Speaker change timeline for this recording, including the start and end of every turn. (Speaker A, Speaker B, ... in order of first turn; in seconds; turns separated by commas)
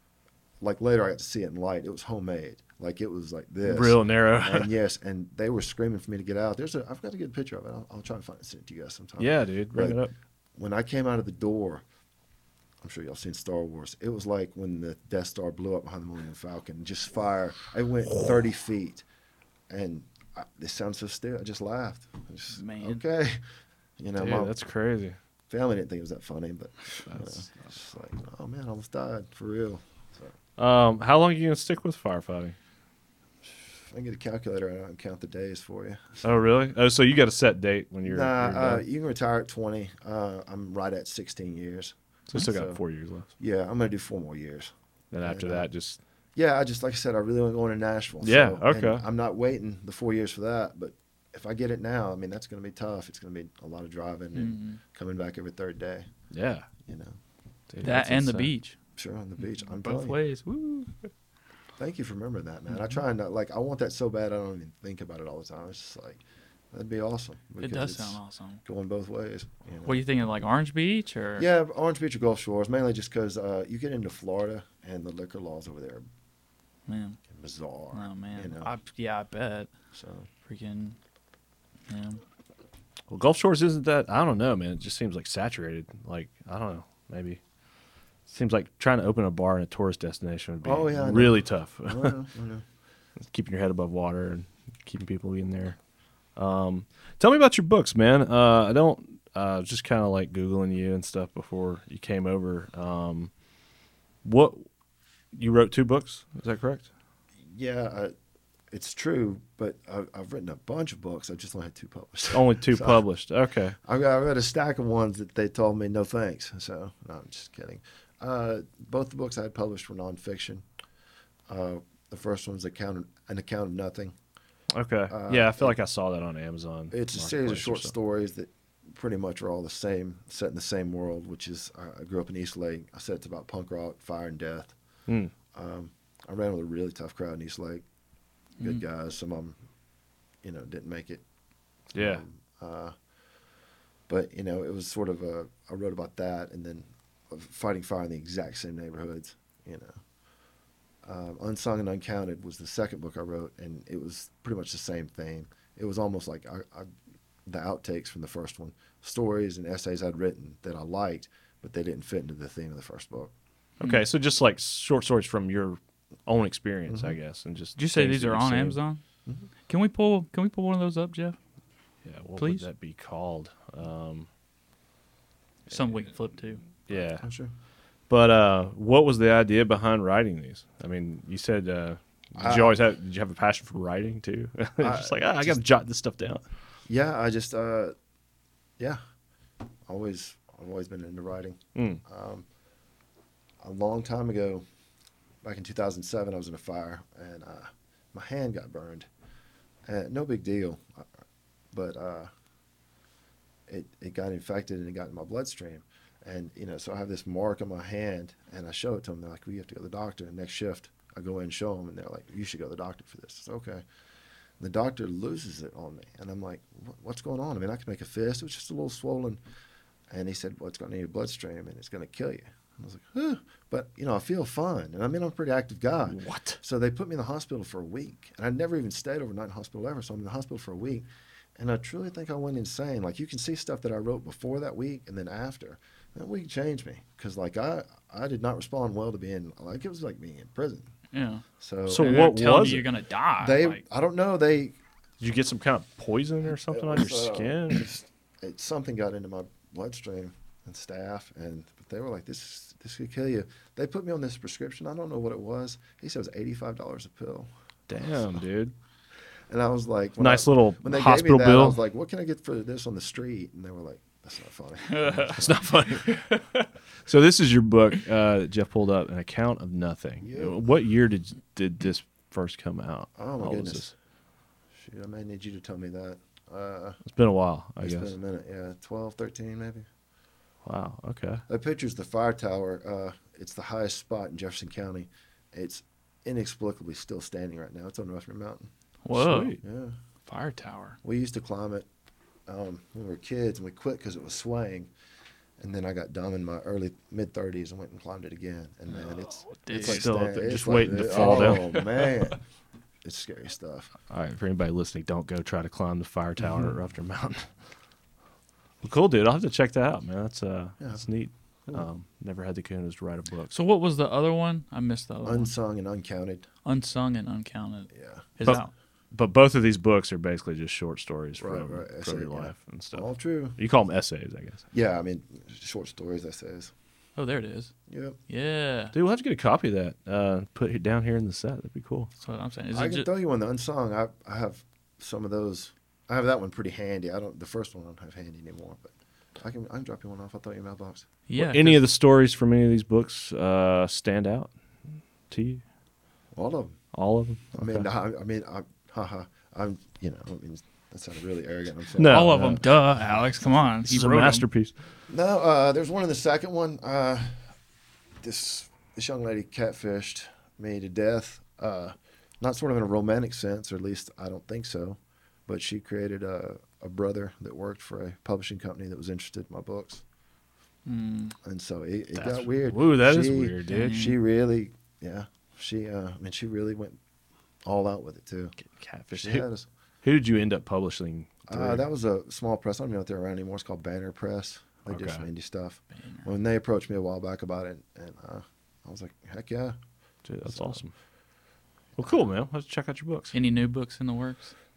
Speaker A: 0.6-10.0, Speaker B: 3.6-4.7, Speaker B: 9.2-10.1, Speaker A: 10.6-11.8, Speaker A: 12.8-19.0, Speaker A: 19.7-23.4, Speaker C: 22.5-23.0, Speaker A: 24.0-24.5, Speaker B: 24.2-25.2, Speaker A: 25.5-30.3, Speaker B: 27.1-27.5, Speaker B: 30.6-32.5, Speaker A: 33.8-36.2, Speaker B: 36.2-38.8, Speaker A: 38.0-42.8, Speaker B: 42.3-43.3, Speaker A: 43.4-45.7, Speaker B: 45.1-46.0, Speaker A: 46.4-56.1, Speaker B: 48.2-49.0, Speaker C: 54.3-54.8, Speaker B: 56.3-56.7, Speaker A: 56.8-57.1, Speaker B: 57.7-58.5, Speaker C: 57.8-58.8, Speaker A: 59.0-60.2, Speaker C: 59.4-61.1, Speaker A: 61.8-66.2, Speaker C: 62.7-63.0, Speaker A: 66.7-70.0, Speaker C: 67.6-68.6, Speaker C: 69.8-71.5, Speaker A: 71.4-76.0, Speaker C: 76.9-77.2, Speaker A: 77.3-78.7, Speaker C: 77.9-79.7, Speaker A: 79.9-80.3, Speaker C: 80.5-81.0, Speaker C: 81.9-82.2, Speaker B: 83.1-87.4, Speaker B: 88.3-92.2, Speaker A: 90.6-92.6, Speaker B: 93.2-95.8, Speaker B: 96.3-103.3, Speaker B: 104.2-104.7, Speaker B: 105.3-106.9, Speaker A: 107.5-108.1, Speaker A: 108.7-113.0, Speaker B: 112.3-113.8, Speaker A: 113.8-120.6, Speaker A: 121.5-124.1, Speaker B: 124.7-127.9, Speaker A: 125.1-125.7, Speaker A: 126.9-134.7, Speaker B: 135.1-135.3, Speaker A: 135.5-137.8, Speaker A: 138.6-139.6, Speaker A: 140.4-141.2, Speaker B: 141.9-142.2, Speaker A: 141.9-142.9, Speaker A: 144.1-150.0, Speaker A: 151.0-156.9, Speaker A: 157.4-163.3, Speaker B: 163.8-168.8, Speaker C: 163.8-164.1, Speaker A: 166.9-167.1, Speaker C: 167.8-169.0, Speaker C: 169.7-171.4, Speaker B: 172.0-174.3, Speaker C: 172.4-172.7, Speaker C: 175.7-176.6, Speaker B: 176.9-177.2, Speaker A: 176.9-177.5, Speaker B: 178.1-186.4, Speaker A: 182.3-182.8, Speaker A: 184.8-185.6, Speaker A: 186.9-187.9, Speaker A: 189.9-192.4, Speaker B: 191.8-192.0, Speaker A: 193.6-194.6, Speaker A: 195.4-199.1, Speaker A: 199.8-201.1, Speaker A: 201.7-202.3, Speaker A: 203.7-213.8, Speaker A: 214.6-219.4, Speaker A: 220.1-240.9, Speaker B: 226.1-226.6, Speaker C: 241.1-243.8, Speaker A: 241.6-242.8, Speaker B: 241.9-242.8, Speaker A: 243.4-244.8, Speaker B: 245.2-247.8, Speaker A: 246.5-257.5, Speaker B: 257.9-258.7, Speaker A: 259.5-265.6, Speaker B: 260.2-261.8, Speaker C: 264.9-265.4, Speaker B: 265.3-266.2, Speaker C: 266.0-266.4, Speaker B: 267.1-273.9, Speaker A: 270.2-270.6, Speaker A: 273.2-273.9, Speaker A: 274.8-277.0, Speaker B: 277.0-278.1, Speaker A: 277.8-279.9, Speaker B: 280.6-281.4, Speaker A: 281.5-288.7, Speaker C: 289.0-289.6, Speaker B: 289.1-289.6, Speaker A: 289.6-289.9, Speaker C: 290.2-291.0, Speaker A: 291.0-291.9, Speaker A: 292.5-294.9, Speaker A: 295.6-302.4, Speaker C: 298.9-300.1, Speaker B: 299.8-301.6, Speaker C: 300.9-302.3, Speaker A: 303.0-303.9, Speaker B: 304.1-307.5, Speaker B: 308.8-313.5, Speaker A: 310.8-311.1, Speaker C: 313.5-315.5, Speaker A: 315.2-316.4, Speaker C: 316.6-318.7, Speaker A: 317.9-318.6, Speaker B: 318.4-323.1, Speaker A: 321.4-323.6, Speaker B: 323.6-324.6, Speaker A: 324.7-326.7, Speaker C: 327.2-327.7, Speaker A: 327.9-328.2, Speaker C: 328.3-328.9, Speaker B: 328.9-332.1, Speaker C: 332.2-333.1, Speaker A: 332.7-341.1, Speaker C: 341.3-341.8, Speaker B: 341.4-344.5, Speaker B: 345.3-345.6, Speaker A: 346.3-346.8, Speaker B: 346.9-347.8, Speaker A: 347.5-352.5, Speaker B: 352.0-352.6, Speaker C: 352.0-354.4, Speaker B: 353.9-354.7, Speaker A: 355.1-357.4, Speaker A: 358.2-370.0, Speaker C: 370.9-371.4, Speaker A: 371.4-377.0, Speaker B: 372.1-374.0, Speaker C: 373.7-374.2, Speaker A: 377.6-378.5, Speaker B: 378.8-379.4, Speaker A: 379.1-379.6, Speaker B: 380.0-381.8, Speaker A: 381.5-389.8, Speaker B: 384.9-385.2, Speaker B: 390.2-390.9, Speaker A: 390.4-390.8, Speaker B: 392.0-393.3, Speaker C: 393.3-394.5